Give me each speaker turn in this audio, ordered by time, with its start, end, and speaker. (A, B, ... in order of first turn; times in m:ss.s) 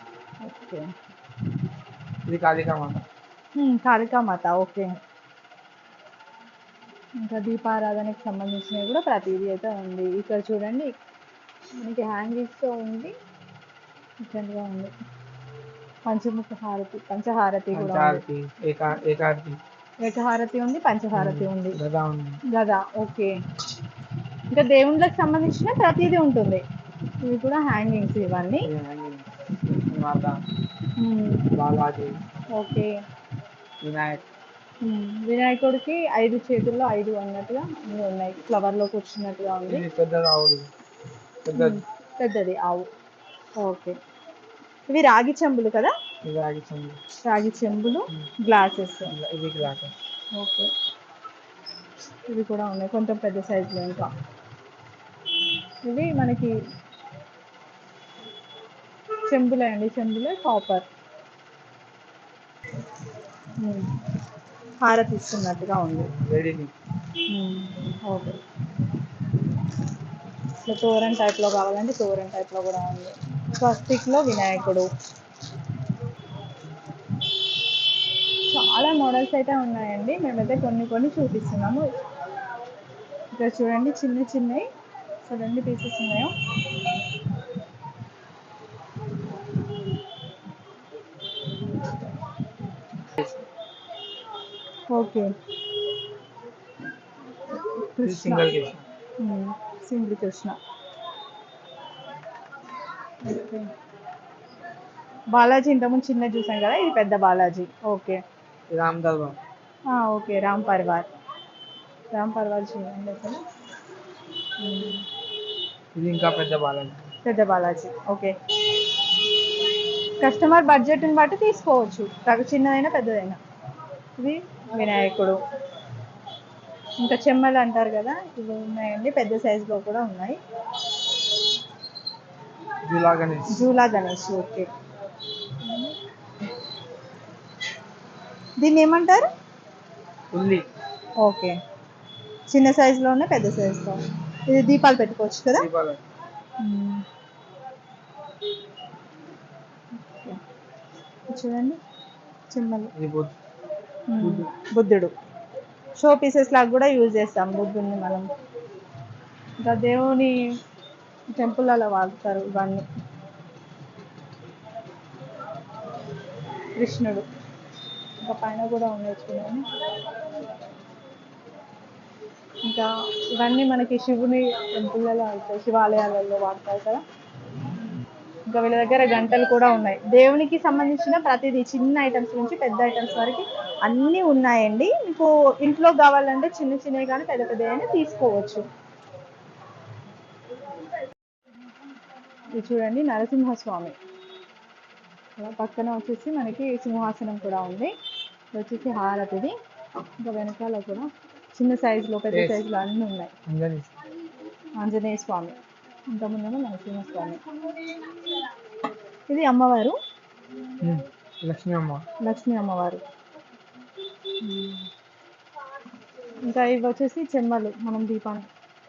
0:00.4-0:00.8 A
0:02.2-0:03.0 B
0:03.6-0:04.9 A
0:07.2-0:10.9 A
0:11.8-0:13.1 A
0:14.2-0:14.9 A
0:16.0-0:18.2 A
0:17.7-0:19.6 B
0:20.0-0:21.8 A
0:21.1-0:22.4 B
0:22.5-0:23.4 A
0:24.5-0:26.6 A
0:27.2-0:28.7 A
0:28.6-0:30.4 B
0:31.0-0:31.5 A
0:31.5-0:32.2 B
0:32.5-0:33.0 A
0:33.8-0:34.2 B
0:34.8-0:39.8 A
0:39.7-0:40.7 B
0:41.4-0:41.8 B
0:41.5-0:42.9 A
0:43.6-0:44.0 A
0:44.9-0:45.9 A
0:46.2-0:47.0 B
0:47.2-0:49.1 A
0:49.0-0:49.9 B
0:50.4-0:50.7 A
0:52.3-0:54.1 A
0:55.8-0:56.5 A
0:59.2-1:00.8 A
1:03.6-1:03.9 A
1:04.8-1:06.1 A
1:06.1-1:06.7 B
1:07.2-1:08.4 A
1:10.6-1:14.9 A
1:18.5-1:21.8 A
1:23.3-1:24.7 A
1:25.2-1:26.3 A
1:34.9-1:35.3 A
1:37.5-1:38.5 A
1:38.0-1:38.8 B
1:39.2-1:40.6 A
1:43.2-1:43.7 A
1:45.3-1:48.2 A
1:48.7-1:49.4 B
1:49.9-1:51.1 A
1:52.1-1:53.4 A
1:54.6-1:55.0 A
1:55.9-1:57.1 B
1:57.2-1:59.2 A
2:00.2-2:03.4 A
2:04.2-2:05.4 A
2:07.0-2:10.4 A
2:12.8-2:13.5 B
2:13.5-2:14.7 A
2:15.4-2:15.9 A
2:18.6-2:19.2 A
2:20.3-2:20.6 B
2:21.2-2:21.6 A
2:22.5-2:25.6 A
2:25.5-2:26.0 B
2:26.6-2:27.0 A
2:30.0-2:30.4 A
2:31.3-2:31.8 A
2:32.5-2:32.9 A
2:32.9-2:33.3 B
2:34.1-2:35.1 A
2:34.2-2:34.5 B
2:36.0-2:38.2 A
2:39.6-2:40.3 A
2:41.3-2:42.8 A
2:46.8-2:47.2 A
2:48.2-2:49.8 A
2:52.6-2:57.0 A
2:58.5-3:08.6 A
3:12.5-3:14.0 A
3:15.4-3:17.9 A
3:18.5-3:19.5 A
3:20.2-3:23.3 A
3:22.3-3:22.6 B
3:23.5-3:23.9 B
3:24.8-3:25.6 A
3:26.1-3:28.4 A
3:29.3-3:30.0 A
3:30.8-3:32.0 B
3:32.2-3:33.0 A
3:34.4-3:34.9 A
3:36.4-3:38.5 A